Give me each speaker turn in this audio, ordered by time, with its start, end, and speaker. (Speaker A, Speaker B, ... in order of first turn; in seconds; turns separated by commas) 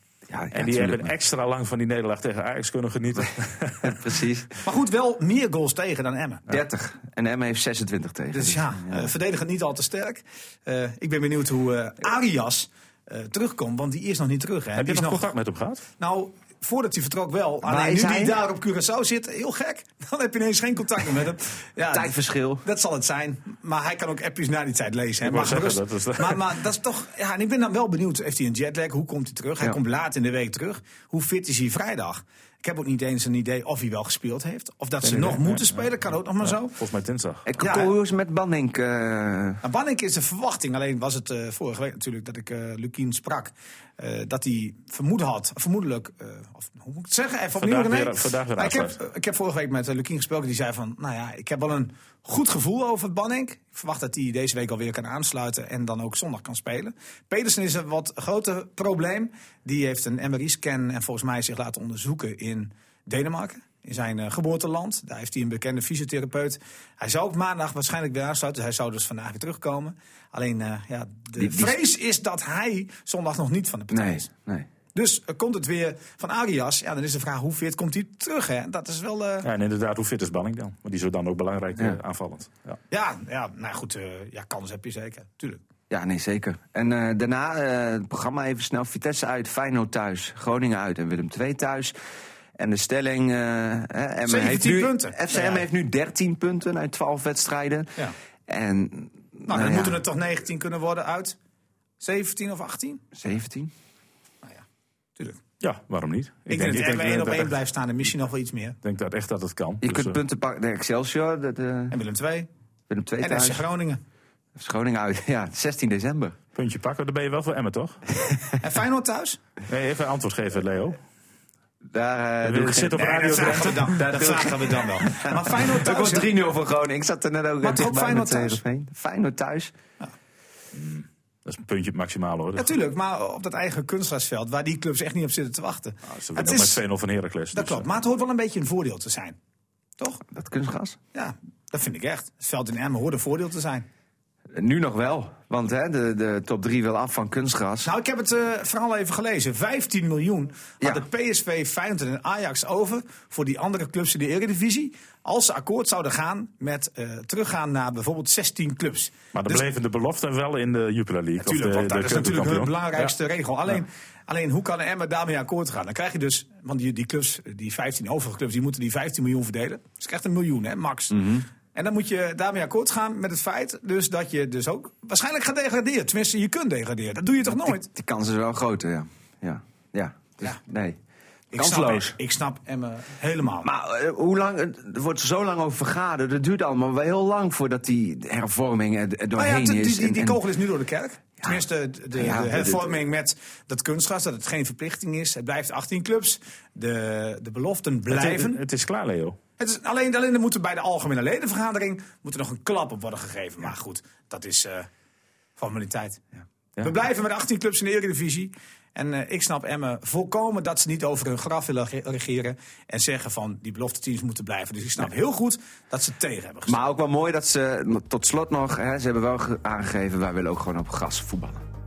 Speaker A: 0.3-1.1, Speaker B: 0.5-4.1, Speaker A: 3.9-4.5, Speaker C: 4.6-6.5, Speaker A: 6.5-9.1, Speaker C: 8.3-15.3, Speaker B: 14.8-15.8, Speaker C: 16.0-36.8, Speaker A: 17.6-18.4, Speaker A: 21.9-22.6, Speaker B: 25.2-26.4, Speaker B: 35.0-37.5, Speaker A: 37.5-39.6, Speaker C: 37.6-37.9, Speaker C: 39.6-74.3, Speaker B: 47.5-49.0, Speaker A: 71.4-71.8, Speaker A: 73.9-74.7, Speaker C: 74.9-79.5, Speaker B: 79.4-82.8, Speaker C: 82.9-85.6, Speaker A: 85.9-91.9, Speaker A: 92.6-97.9, Speaker C: 94.3-95.7, Speaker A: 98.5-100.0, Speaker C: 99.5-101.4, Speaker C: 102.0-103.0, Speaker A: 103.2-103.7, Speaker B: 105.6-107.5, Speaker C: 106.5-108.8, Speaker B: 108.8-110.2, Speaker A: 109.8-112.0, Speaker C: 111.9-112.5, Speaker A: 112.9-113.7, Speaker C: 113.2-114.0, Speaker A: 114.6-116.4, Speaker B: 116.5-118.0, Speaker C: 118.6-119.4, Speaker B: 119.7-121.0, Speaker A: 121.9-129.7, Speaker B: 122.4-124.1, Speaker C: 122.9-126.3, Speaker C: 127.6-128.6, Speaker B: 130.7-132.7, Speaker C: 132.6-136.8, Speaker B: 136.1-137.9, Speaker C: 137.5-139.4, Speaker A: 140.3-141.0, Speaker C: 141.1-143.9, Speaker A: 144.6-147.9, Speaker C: 147.8-159.7, Speaker A: 150.8-151.1, Speaker B: 159.3-163.1, Speaker C: 161.4-177.9, Speaker A: 171.1-171.4, Speaker A: 177.5-181.0, Speaker C: 181.5-183.7, Speaker A: 181.5-182.2, Speaker A: 183.6-190.4, Speaker C: 189.4-198.6, Speaker A: 192.1-192.9, Speaker B: 198.1-199.4, Speaker C: 199.6-204.9, Speaker C: 205.6-206.2, Speaker C: 206.8-216.8, Speaker A: 216.7-221.6